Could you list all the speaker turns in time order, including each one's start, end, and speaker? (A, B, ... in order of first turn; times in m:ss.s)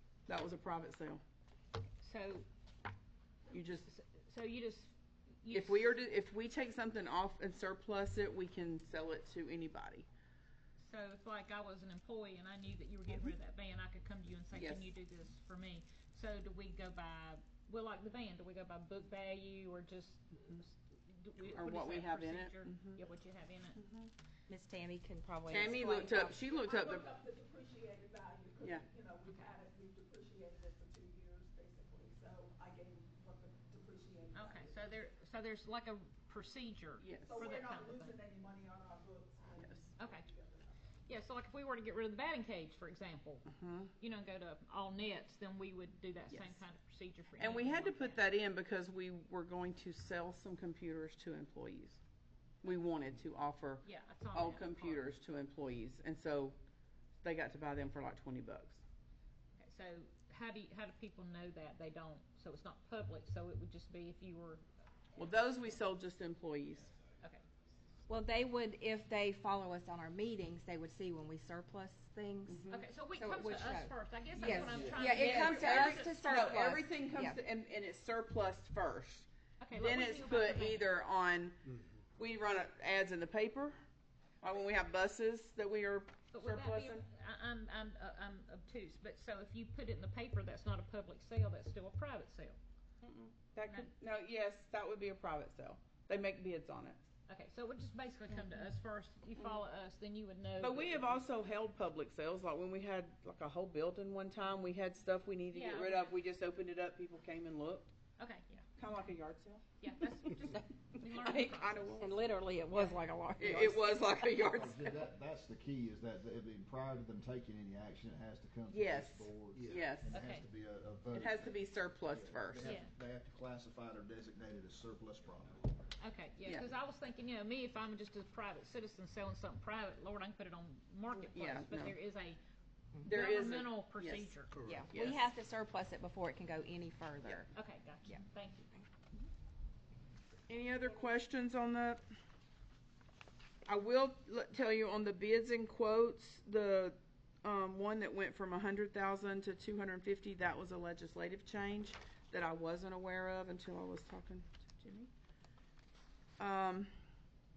0:00.3-0:01.2 A
0:02.0-0:02.4 B
0:03.5-0:03.9 A
0:03.9-0:04.9 B
0:05.4-0:05.9 B
0:05.5-0:10.1 A
0:10.8-0:23.8 B
0:14.5-0:14.9 A
0:21.4-0:23.0 A
0:23.8-0:24.1 A
0:24.5-0:26.4 C
0:25.5-0:27.1 A
0:26.6-0:34.8 D
0:29.2-0:29.5 B
0:34.3-0:38.2 B
0:37.0-0:37.5 A
0:37.2-0:39.7 D
0:40.0-0:40.3 B
0:41.1-0:48.2 B
0:43.5-0:43.9 A
0:46.3-0:46.6 A
0:47.4-0:52.0 A
0:52.6-0:56.6 A
0:53.8-0:55.1 B
0:57.2-0:58.8 A
0:59.6-1:05.8 B
1:05.2-1:06.9 A
1:08.1-1:17.4 C
1:12.5-1:12.7 A
1:12.7-1:16.7 B
1:14.4-1:21.6 A
1:19.6-1:20.9 B
1:22.2-1:23.8 A
1:24.4-1:27.0 A
1:26.3-1:32.6 B
1:33.0-1:37.0 A
1:37.3-1:41.2 B
1:38.3-1:38.6 C
1:39.4-1:39.6 A
1:40.6-1:47.9 A
1:45.5-1:46.2 B
1:48.2-1:48.7 B
1:48.8-1:49.7 A
1:49.8-1:53.0 B
1:51.1-1:52.2 A
1:52.0-1:54.5 C
1:53.4-1:55.1 A
1:54.4-2:05.9 E
1:58.7-2:00.2 A
1:59.6-1:59.8 D
2:00.1-2:00.5 B
2:01.1-2:02.8 A
2:02.6-2:02.9 B
2:06.0-2:12.4 B
2:06.4-2:06.7 A
2:11.1-2:11.9 A
2:13.0-2:14.7 B
2:13.0-2:14.3 A
2:14.6-2:14.8 D
2:14.6-2:17.5 C
2:14.9-2:15.3 A
2:17.5-2:18.7 B
2:18.0-2:18.9 C
2:20.5-2:22.0 A
2:23.6-2:35.1 A
2:36.4-2:36.9 A